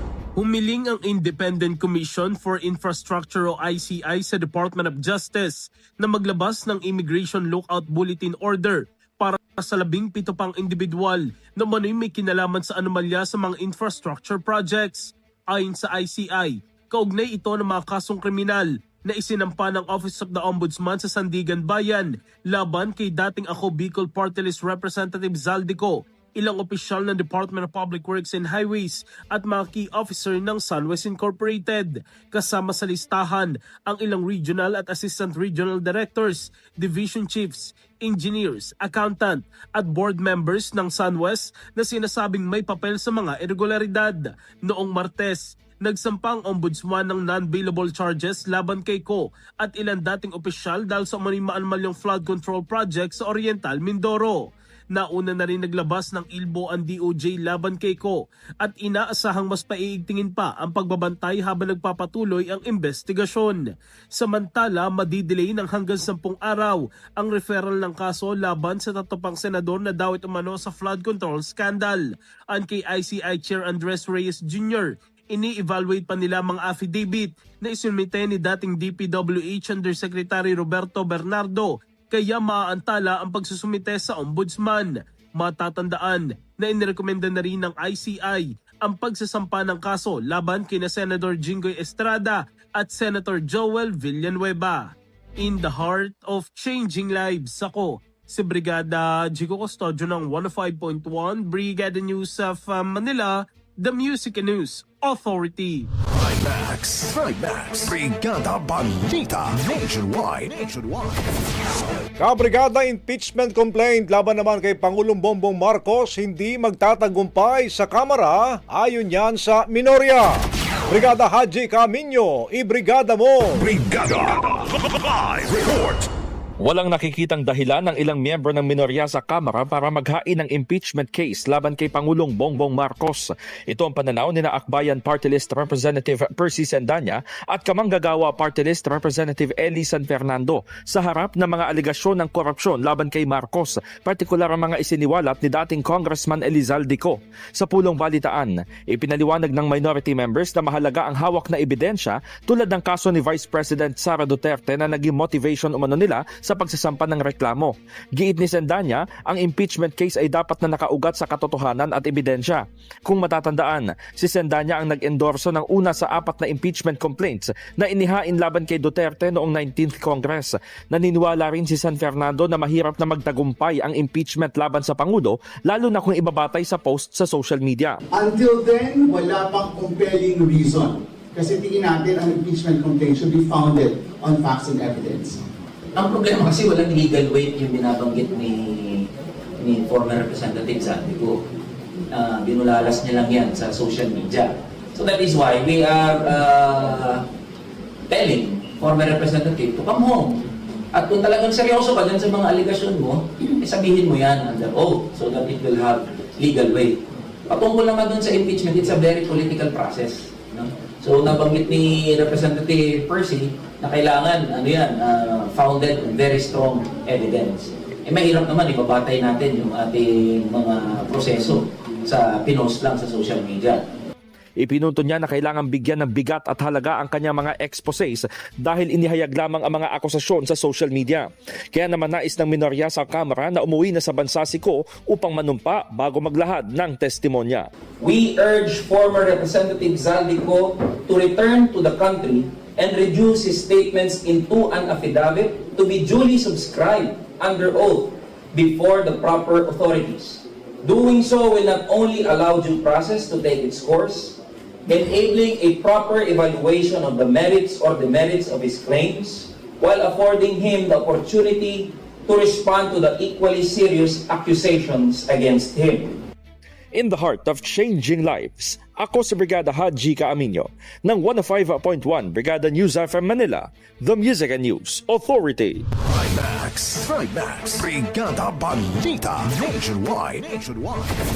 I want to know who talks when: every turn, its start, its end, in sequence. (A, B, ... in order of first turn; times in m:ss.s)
0:00.4-1:45.9 A
1:46.1-1:51.2 B
1:52.2-2:00.3 C
2:00.9-2:03.7 C
2:03.6-2:06.1 B
2:06.6-2:58.0 D
2:58.1-3:05.4 E
3:06.0-3:11.4 F
3:12.1-3:17.2 F
3:18.1-3:20.4 F
3:20.9-3:43.8 F
3:44.6-3:57.7 D
3:58.0-4:26.2 F
4:26.9-4:35.8 D
4:36.0-4:41.2 B